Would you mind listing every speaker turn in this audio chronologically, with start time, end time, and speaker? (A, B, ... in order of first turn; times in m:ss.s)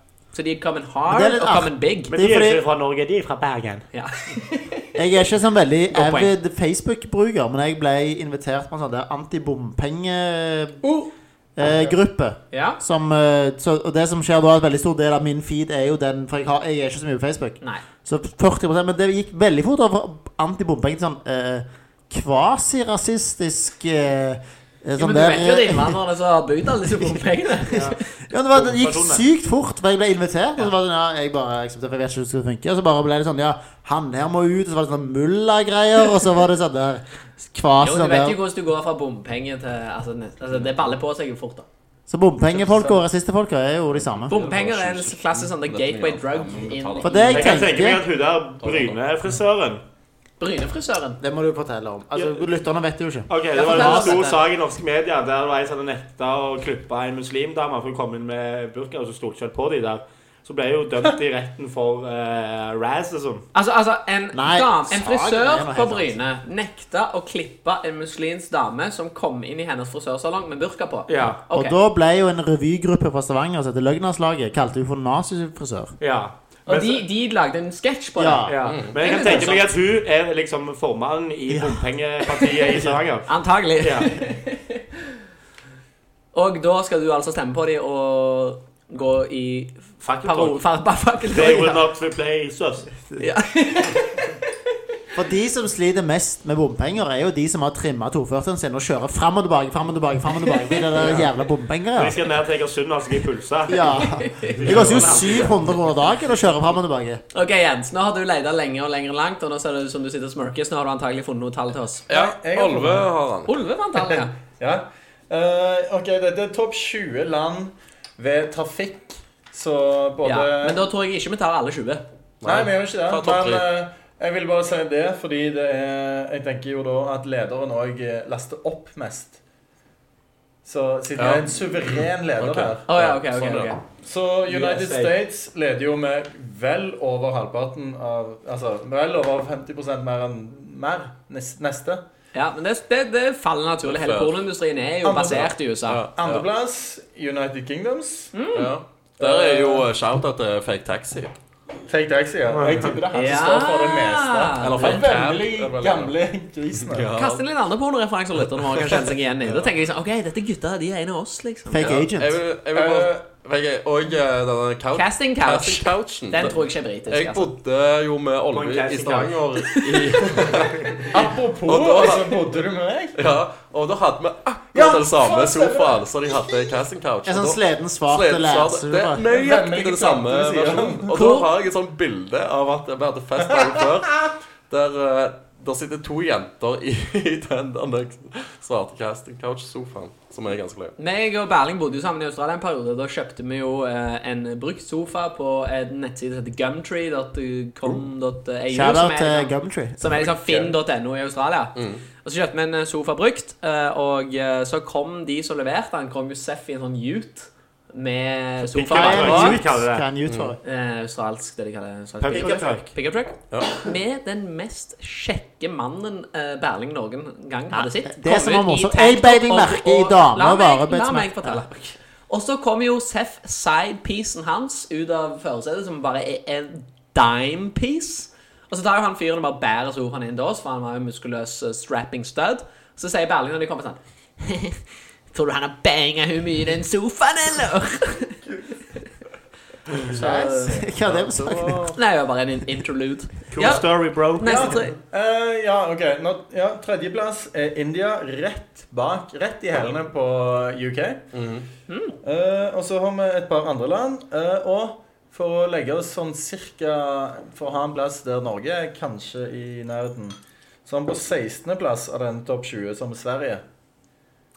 0:00.3-0:02.1 A
0:01.1-0:02.6 B
0:02.1-0:03.8 C
0:03.9-0:04.9 A
0:04.9-0:10.8 B
0:05.9-0:06.3 A
0:10.8-0:11.1 D
0:11.6-0:26.0 B
0:11.6-0:12.0 D
0:12.5-0:12.8 A
0:25.0-0:28.0 A
0:27.7-0:38.4 B
0:27.7-0:28.0 C
0:28.5-0:29.2 C
0:37.8-0:41.6 A
0:42.1-0:44.3 B
0:42.6-0:43.0 D
0:44.2-0:47.7 E
0:44.3-0:47.6 A
0:47.0-0:48.0 B
0:47.3-0:49.8 C
0:48.6-0:49.0 E
0:50.4-0:51.2 A
0:51.2-0:54.2 B
0:52.1-0:52.4 C
0:53.3-1:03.4 C
0:53.5-0:54.4 A
1:03.5-1:11.8 A
1:04.3-1:06.2 B
1:11.1-1:11.4 C
1:11.5-1:15.9 B
1:16.0-1:17.0 C
1:16.6-1:19.7 A
1:18.2-1:18.8 B
1:18.4-1:23.3 C
1:18.6-1:19.0 E
1:21.5-1:21.9 B
1:22.5-1:23.0 B
1:23.3-1:24.8 A
1:23.8-1:24.1 C
1:26.3-1:31.8 A
1:30.0-1:30.6 C
1:31.3-1:33.0 C
1:33.2-1:34.4 A
1:35.1-1:42.2 B
1:41.0-1:41.3 C
1:41.9-1:44.0 C
1:43.7-1:47.2 B
1:43.9-1:44.6 A
1:44.5-1:45.6 C
1:47.3-1:52.1 A
1:52.1-1:53.5 E
1:52.1-1:53.1 D
1:53.4-1:54.3 A
1:54.0-2:00.8 D
2:00.2-2:02.0 A
2:02.4-2:03.6 E
2:02.4-2:09.4 D
2:10.6-2:12.8 D
2:11.2-2:13.7 E
2:12.9-2:13.8 A
2:14.0-2:22.0 D
2:14.5-2:15.2 C
2:22.3-2:26.0 A
2:23.8-2:24.4 E
2:25.0-2:25.5 D
2:25.3-2:26.4 E
2:26.2-2:28.3 D
2:28.3-2:28.7 A
2:28.5-2:31.3 E
2:29.2-2:29.8 D
2:31.9-2:37.1 D
2:32.5-2:33.0 C
2:33.1-2:35.1 A
2:34.6-2:36.1 E
2:36.9-2:37.4 E
2:37.2-2:42.0 A
2:38.5-2:39.1 E
2:41.7-2:42.4 B
2:41.8-2:46.6 E
2:42.7-2:43.2 D
2:44.9-2:47.5 A
2:47.1-2:52.5 E
2:48.5-2:49.4 C
2:49.7-2:50.2 A
2:51.1-2:53.2 D
2:53.2-3:10.9 E
2:54.7-2:56.0 D
2:57.2-2:59.2 B
2:59.2-3:01.3 D
3:01.1-3:01.5 A
3:11.0-3:29.6 A
3:18.7-3:20.1 B
3:20.1-3:20.8 D
3:21.7-3:22.0 E
3:28.7-3:30.0 C
3:28.9-3:30.6 B
3:29.1-3:29.6 E
3:30.2-3:30.5 E
3:30.6-3:41.7 A
3:32.2-3:32.9 C
3:32.4-3:32.6 D
3:33.5-3:33.8 E
3:37.7-3:41.8 B
3:42.3-3:54.8 A
3:55.3-3:58.4 A
4:00.0-4:02.0 B
4:00.0-4:00.8 A
4:01.0-4:01.9 E
4:01.9-4:03.9 A
4:03.5-4:04.7 C
4:04.4-4:05.0 A
4:04.4-4:11.2 D
4:11.3-4:11.6 E
4:11.9-4:12.1 A
4:12.2-4:23.6 D